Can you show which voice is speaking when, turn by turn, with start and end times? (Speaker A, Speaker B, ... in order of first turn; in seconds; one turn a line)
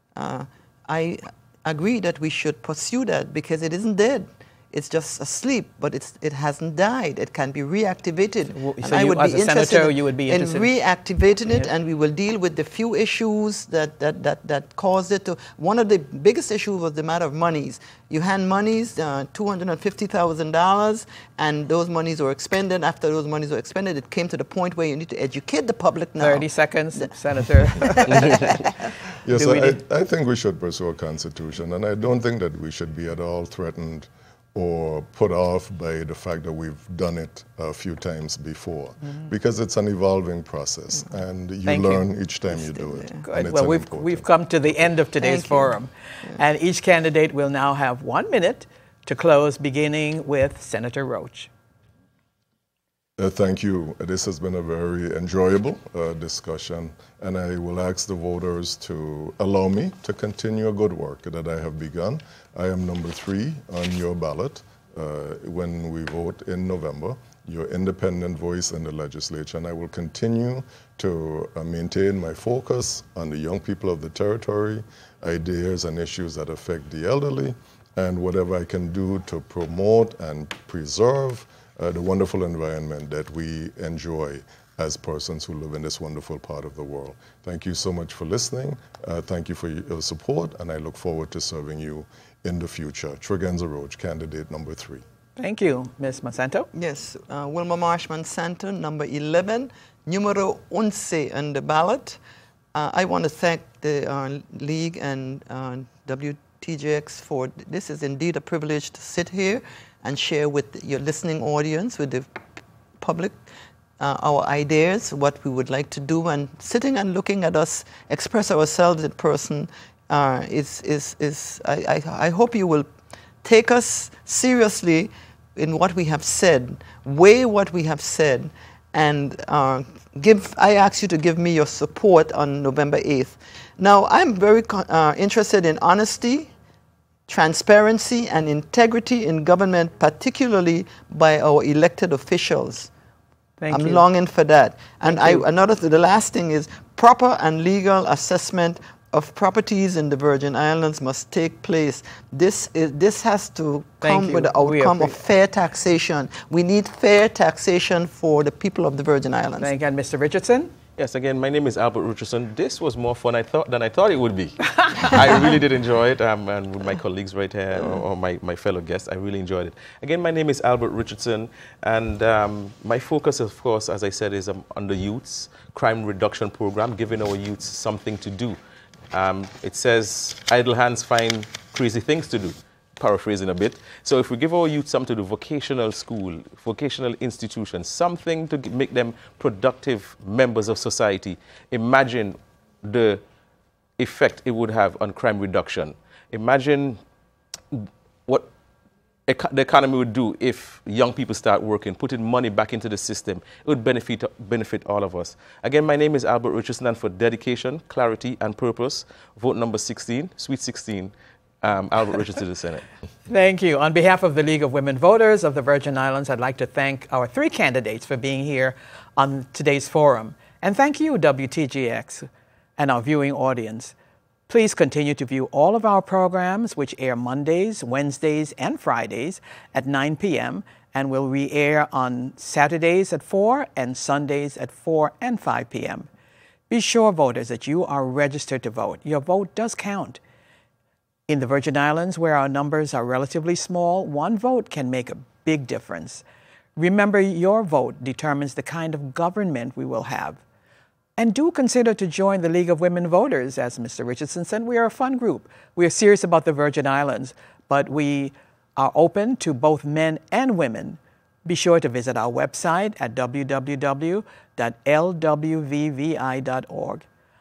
Speaker A: 0.1-26.5
Speaker B: 8.5-10.7
Speaker B: 26.2-28.6
Speaker A: 27.6-28.6
Speaker C: 29.1-44.3
Speaker B: 29.3-29.8
Speaker B: 41.6-42.0
Speaker A: 42.6-43.2
Speaker B: 43.2-51.5
Speaker A: 45.2-45.8
Speaker C: 53.2-95.0
Speaker B: 95.4-96.7
Speaker A: 96.7-102.2
Speaker A: 102.7-112.5
Speaker A: 113.0-113.4
Speaker A: 114.0-122.8
Speaker A: 123.4-136.5
Speaker A: 137.3-142.9
Speaker B: 143.6-144.0
Speaker A: 143.7-159.7
Speaker B: 145.1-145.4
Speaker B: 154.0-155.2
Speaker B: 159.6-160.7
Speaker D: 161.0-178.6
Speaker D: 179.1-193.2
Speaker D: 194.0-197.0
Speaker D: 197.7-198.5
Speaker D: 199.3-212.8
Speaker B: 213.3-223.9
Speaker B: 224.5-236.1
Speaker B: 236.7-240.2
Speaker B: 241.3-246.2
Speaker B: 246.8-250.4
Speaker B: 251.2-267.0